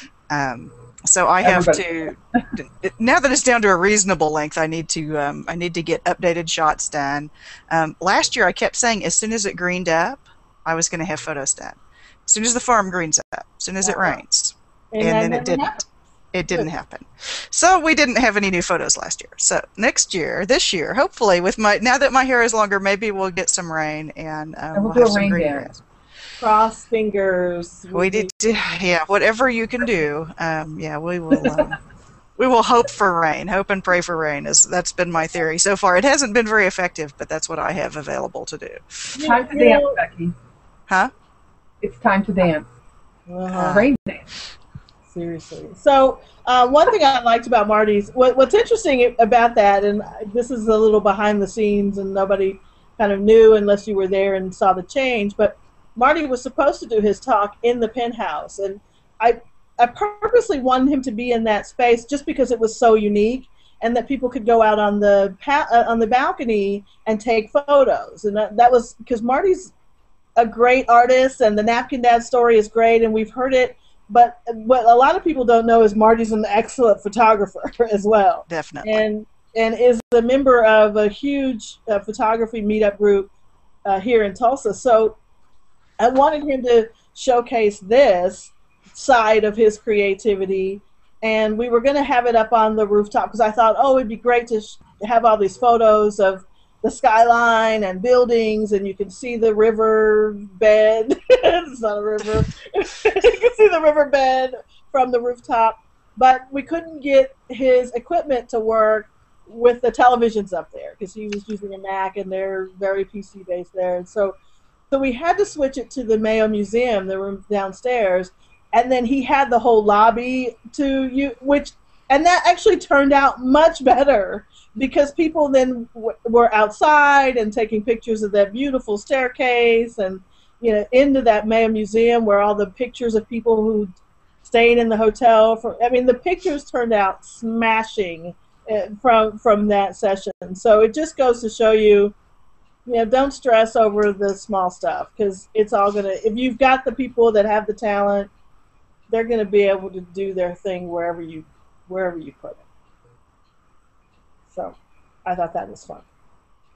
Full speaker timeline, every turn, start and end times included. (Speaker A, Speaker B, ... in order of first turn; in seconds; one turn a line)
Speaker A: 0.3-25.8
Speaker B: 1.4-2.4
Speaker C: 13.8-14.2
Speaker C: 14.9-15.8
Speaker B: 24.8-25.7
Speaker C: 26.4-28.3
Speaker A: 27.9-31.8
Speaker A: 32.4-39.0
Speaker C: 39.2-40.0
Speaker B: 39.2-40.4
Speaker B: 41.8-42.7
Speaker C: 43.3-43.9
Speaker A: 43.5-43.9
Speaker B: 43.6-44.3
Speaker C: 45.1-69.7
Speaker C: 70.4-83.3
Speaker A: 78.5-79.0
Speaker C: 83.8-85.2
Speaker C: 86.0-114.4
Speaker C: 114.9-133.9
Speaker C: 134.4-142.2
Speaker C: 142.9-148.3
Speaker C: 149.1-152.7
Speaker C: 154.5-156.1